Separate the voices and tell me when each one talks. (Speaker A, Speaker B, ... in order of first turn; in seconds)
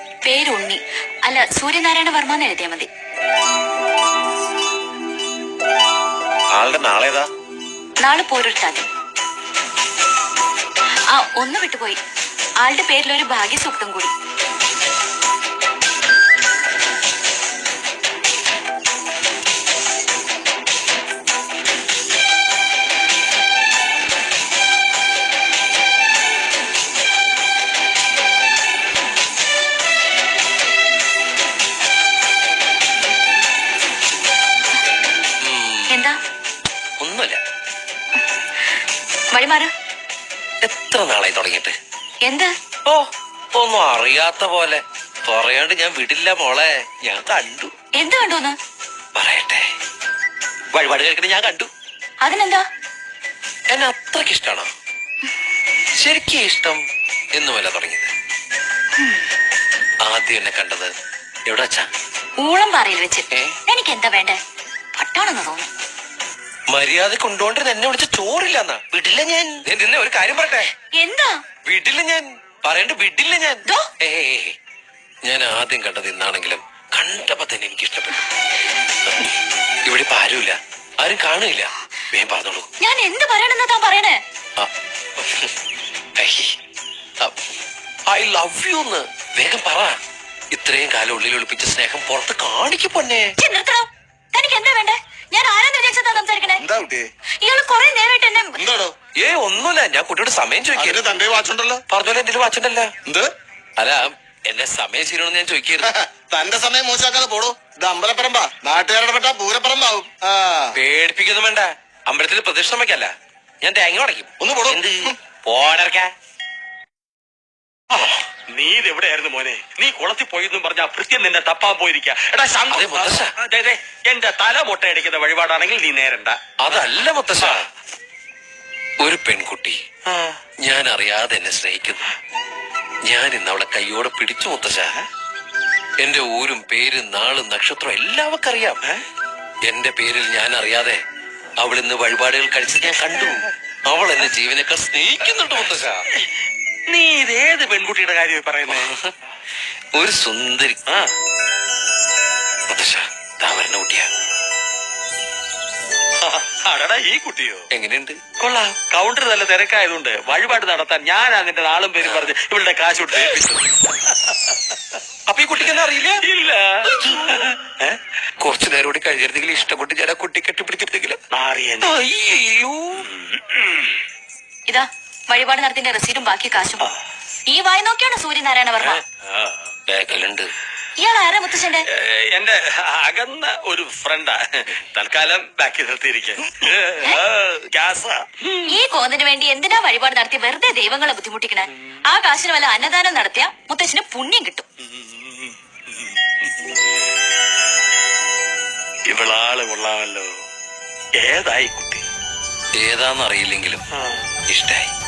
Speaker A: 0.2-2.9, 8.0-8.9, 11.1-12.0, 12.6-14.1, 35.9-36.2, 39.3-39.7, 42.2-42.5, 48.0-48.6, 52.2-52.6, 59.0-59.2, 62.4-64.4, 64.9-65.7, 70.9-71.4, 82.8-84.2, 93.4-96.6, 97.4-98.6, 174.7-176.9, 177.5-179.0, 181.0-181.9, 188.7-194.7
Speaker B: 6.5-7.3, 35.4-36.0, 37.0-37.4, 40.6-41.7, 42.8-47.7, 49.1-49.7, 50.7-51.7, 53.7-54.7, 56.0-56.8, 57.3-58.1, 60.0-60.9, 61.5-61.9, 63.3-63.6, 66.7-70.7, 71.6-74.5, 75.2-78.2, 79.0-79.3, 79.8-82.7, 84.6-85.5, 86.2-86.5, 88.1-90.0, 90.5-93.3, 99.2-101.1, 101.9-102.9, 103.8-105.9, 110.7-116.1, 122.7-123.3, 126.6-127.7, 129.0-129.8, 130.6-132.1, 133.1-134.9, 136.0-138.8, 139.7-141.0, 141.6-146.0, 148.7-149.1, 149.9-150.8, 152.7-154.1, 157.7-158.2, 162.0-162.3, 165.3-166.2, 166.9-167.4, 168.4-171.2, 171.8-173.1, 179.9-180.5, 202.8-203.8, 204.5-204.9
Speaker C: 96.5-97.1, 98.6-98.9, 100.8-101.8, 105.8-110.8, 114.4-115.1
Speaker D: 118.5-127.7, 130.1-130.4, 146.9-149.0, 156.2-157.7, 158.4-164.8, 165.6-168.0, 171.3-172.0, 173.0-174.0, 178.9-179.7, 181.9-188.7, 194.8-196.5, 199.1-200.3, 201.2-202.0, 203.9-204.2